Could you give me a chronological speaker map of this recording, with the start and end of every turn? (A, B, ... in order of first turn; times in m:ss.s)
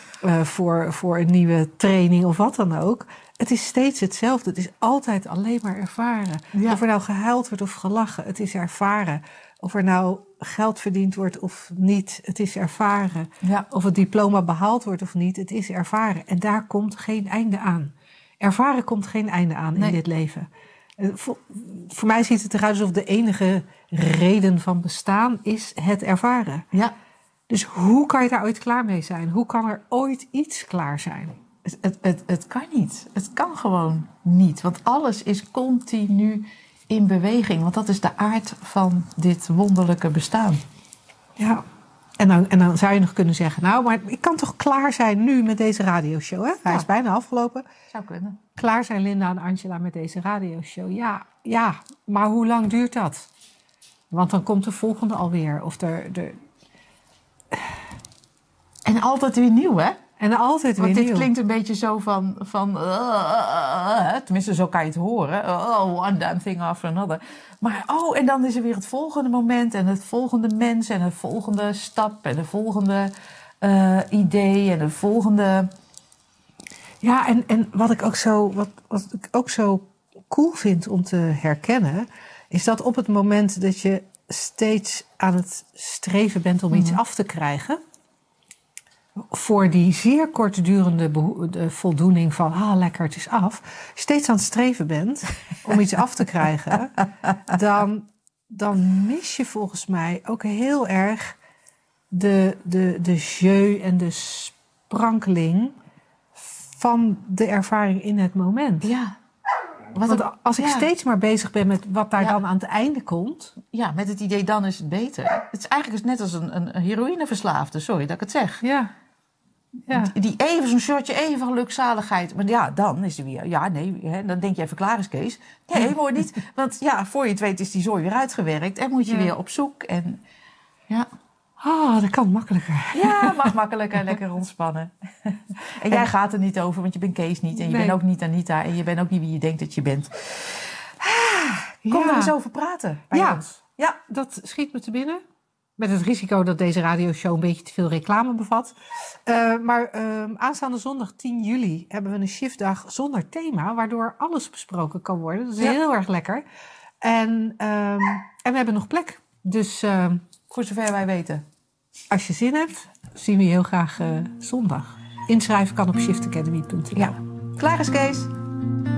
0:00.2-0:26.7 A
0:06.5-0:06.8 B
0:13.4-0:13.7 B
0:27.5-0:31.4 A
0:31.6-0:40.6 B
0:41.4-0:41.6 A
0:42.2-0:47.6 A
0:47.9-0:48.4 B
0:48.6-0:53.3 A
0:54.1-0:56.4 A
0:58.8-1:00.0 B
1:00.2-1:01.3 A
1:00.8-1:15.7 B
1:17.0-1:27.8 A
1:26.7-1:27.0 B
1:29.2-1:41.4 A
1:42.1-1:45.7 A
1:46.4-1:48.9 A
1:48.8-1:49.2 B
1:49.9-1:50.9 B
1:50.1-1:53.5 A
1:53.7-1:58.6 B
1:58.6-1:58.9 A
1:59.9-2:10.2 B
2:09.1-2:09.3 A
2:11.6-2:13.5 A
2:12.9-2:24.0 B
2:17.5-2:18.0 A
2:21.8-2:22.3 A
2:23.1-2:23.4 A
2:24.0-2:25.2 A
2:25.8-2:36.4 A
2:37.0-2:40.2 A
2:40.5-2:41.4 B
2:42.1-2:47.2 A
2:46.9-2:48.3 B